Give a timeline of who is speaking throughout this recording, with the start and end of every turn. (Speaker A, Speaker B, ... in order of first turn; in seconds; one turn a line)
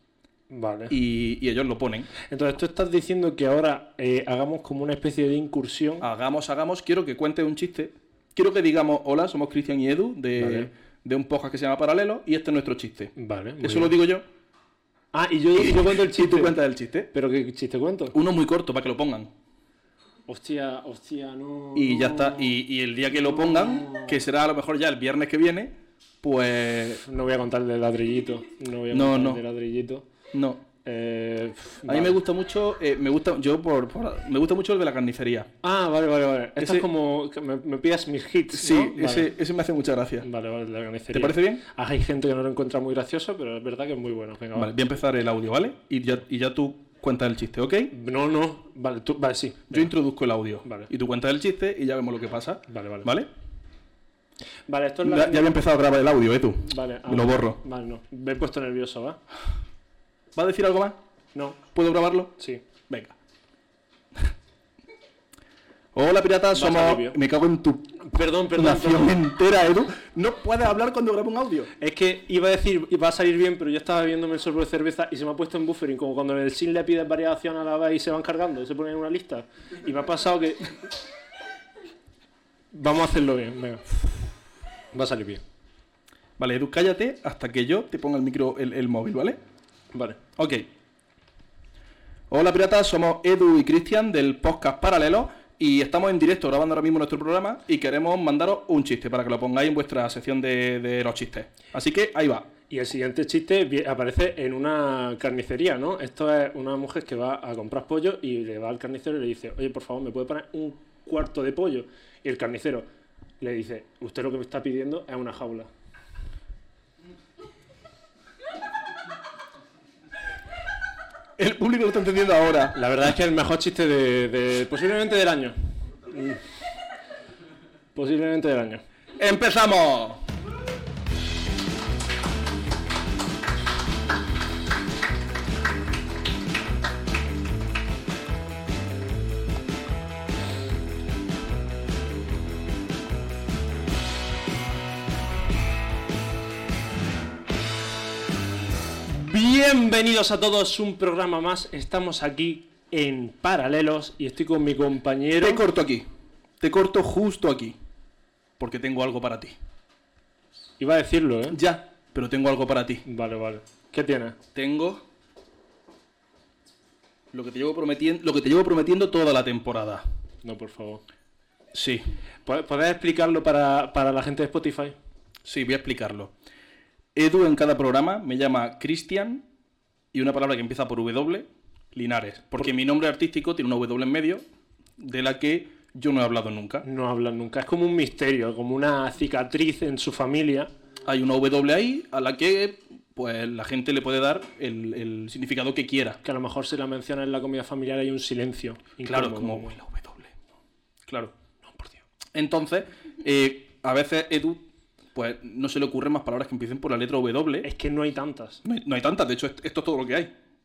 Speaker A: 0.5-1.0
Speaker B: 0.9-2.1
Speaker A: 2.3-6.1
Speaker B: 6.0-14.2
Speaker A: 10.4-10.7
Speaker A: 13.2-13.9
Speaker A: 15.1-16.6
Speaker B: 15.6-17.1
Speaker A: 17.1-18.2
Speaker B: 18.1-19.3
Speaker A: 20.3-22.6
Speaker B: 21.8-27.0
Speaker A: 23.3-24.2
Speaker A: 27.0-30.1
Speaker B: 28.9-29.4
Speaker B: 30.3-30.6
Speaker A: 30.9-32.2
Speaker B: 31.9-35.5
Speaker A: 35.6-39.3
Speaker B: 36.6-36.9
Speaker B: 38.5-40.3
Speaker A: 40.2-44.7
Speaker B: 41.1-41.6
Speaker B: 44.5-47.9
Speaker A: 47.9-49.9
Speaker B: 49.7-53.3
Speaker A: 50.6-50.9
Speaker A: 52.7-53.1
Speaker A: 54.7-55.5
Speaker B: 55.0-57.6
Speaker A: 56.6-59.2
Speaker B: 60.4-61.0
Speaker A: 61.4-61.6
Speaker B: 61.7-62.3
Speaker B: 62.9-63.1
Speaker B: 65.9-71.7
Speaker A: 66.5-67.2
Speaker A: 68.0-69.2
Speaker A: 71.8-80.9
Speaker A: 82.7-84.1
Speaker A: 84.9-85.4
Speaker B: 86.4-89.4
Speaker A: 89.9-90.2
Speaker B: 90.4-90.7
Speaker B: 92.3-102.5
Speaker A: 102.7-112.9
Speaker A: 113.4-115.7
Speaker B: 121.4-122.8
Speaker A: 122.7-125.6
Speaker A: 126.1-126.4
Speaker A: 128.0-128.8
Speaker B: 129.2-130.2
Speaker A: 149.1-155.6
Speaker B: 155.4-156.1
Speaker B: 156.6-157.8
Speaker B: 158.6-159.6
Speaker A: 160.8-161.6
Speaker B: 161.5-163.0
Speaker A: 163.1-164.4
Speaker B: 164.6-165.0
Speaker B: 167.3-170.0
Speaker A: 170.4-171.0
Speaker B: 171.7-172.1
Speaker A: 172.5-174.9
Speaker B: 175.4-176.3
Speaker B: 177.2-179.4
Speaker B: 180.1-184.4
Speaker B: 185.0-186.8
Speaker A: 186.8-190.7
Speaker B: 191.1-196.2
Speaker A: 196.2-199.8
Speaker B: 199.1-200.4
Speaker B: 201.1-201.3
Speaker A: 201.6-202.0
Speaker B: 202.3-204.6
Speaker B: 205.2-207.7
Speaker A: 207.6-208.6
Speaker B: 208.6-210.3